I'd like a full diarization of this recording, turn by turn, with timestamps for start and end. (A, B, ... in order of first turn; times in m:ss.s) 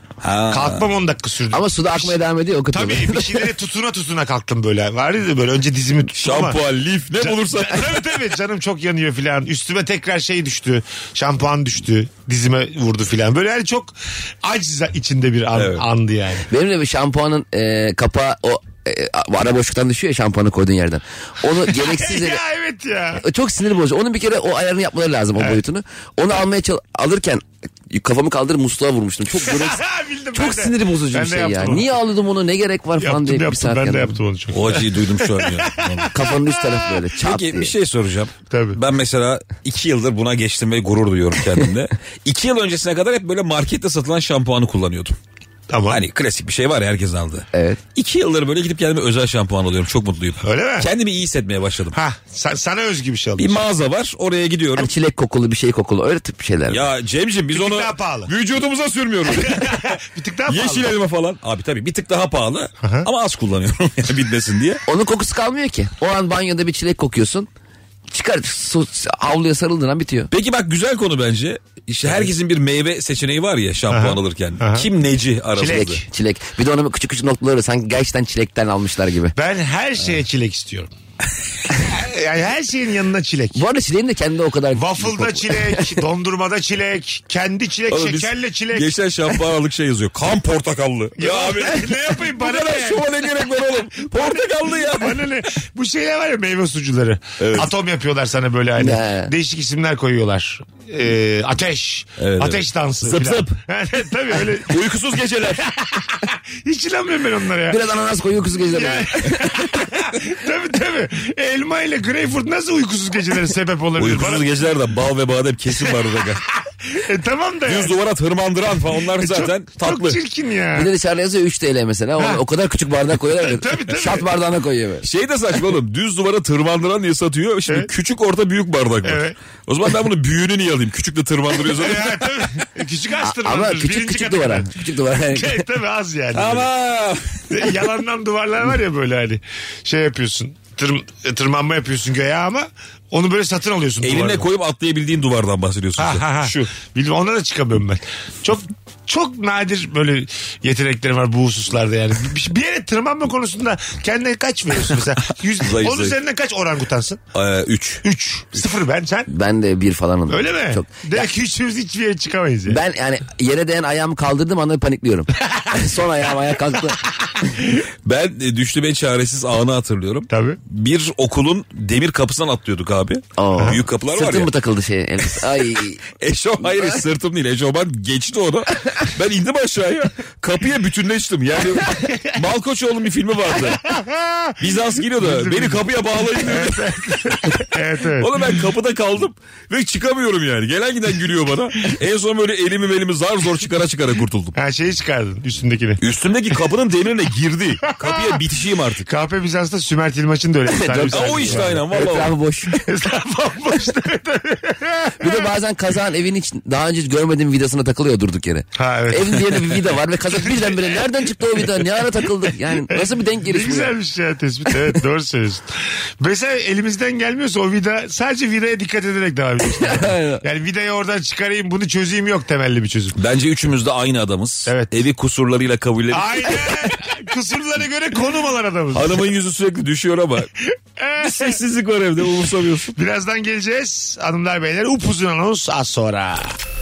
0:00.2-0:00.9 A
0:00.5-0:06.6 B
0:01.5-0:03.5 C
0:06.1-0:08.1 A
0:07.2-0:16.5 B
0:15.5-0:15.9 A
0:16.5-0:22.4 C
0:21.6-0:23.2 B
0:23.2-0:29.8 C
0:29.4-0:32.0 B
0:30.3-0:34.2 C
0:33.0-0:36.9 B
0:34.5-0:36.2 A
0:36.1-0:37.7 C
0:37.2-0:45.2 A
0:38.5-0:38.8 B
0:45.7-0:46.0 B
0:45.9-0:52.0 A
0:47.5-0:47.8 C
0:50.4-0:50.9 B
0:51.9-0:53.6 B
0:53.4-0:54.9 A
0:54.8-0:56.9 C
0:56.7-1:04.8 A
0:57.5-0:58.3 B
0:59.3-1:00.9 B
1:02.8-1:03.1 B
1:04.9-1:07.5 C
1:08.1-1:10.3 C
1:10.3-1:16.0 A
1:13.9-1:14.9 B
1:15.5-1:16.0 B
1:15.7-1:19.4 C
1:19.4-1:20.9 B
1:21.8-1:23.6 B
1:23.6-1:26.0 C
1:24.7-1:28.9 B
1:27.9-1:35.2 A
1:31.2-1:33.3 B
1:34.0-1:44.8 B
1:37.4-1:37.7 A
1:38.8-1:39.3 C
1:42.2-1:43.5 A
1:44.6-1:45.7 A
1:45.6-1:47.8 B
1:47.7-1:49.4 C
1:48.7-1:54.5 B
1:54.0-1:56.4 A
1:55.8-1:56.2 B
1:56.9-1:58.0 B
1:57.6-2:00.2 A
1:59.1-2:00.9 B
2:00.7-2:05.1 C
2:03.3-2:04.3 B
2:05.0-2:12.4 A
2:09.0-2:09.4 B
2:11.6-2:16.7 B
2:13.2-2:15.6 C
2:16.3-2:17.6 A
2:17.5-2:24.5 B
2:24.0-2:26.7 A
2:26.0-2:37.2 B
2:35.6-2:36.2 A
2:37.3-2:38.0 A
2:38.0-2:39.3 B
2:39.3-2:41.2 C
2:40.3-2:42.8 B
2:42.7-2:47.0 C
2:48.0-2:54.5 A
2:50.3-2:50.6 B
2:53.4-2:56.0 C
2:53.6-2:53.8 B
2:56.1-3:03.8 A
2:56.6-2:56.9 C
3:02.0-3:02.3 B
3:03.6-3:08.6 B
3:04.6-3:14.6 A
3:14.6-3:16.0 B
3:16.0-3:19.1 A
3:17.8-3:21.8 B
3:20.7-3:22.8 C
3:20.9-3:22.3 A
3:22.7-3:25.5 B
3:25.2-3:33.9 C
3:28.8-3:32.0 B
3:32.7-3:43.2 B
3:39.7-3:40.4 C
3:43.1-3:46.8 A
3:44.6-3:45.0 B
3:46.1-3:49.2 B
3:48.9-3:50.5 A
3:51.0-3:51.6 B
3:51.2-3:53.0 A
3:53.0-3:56.6 B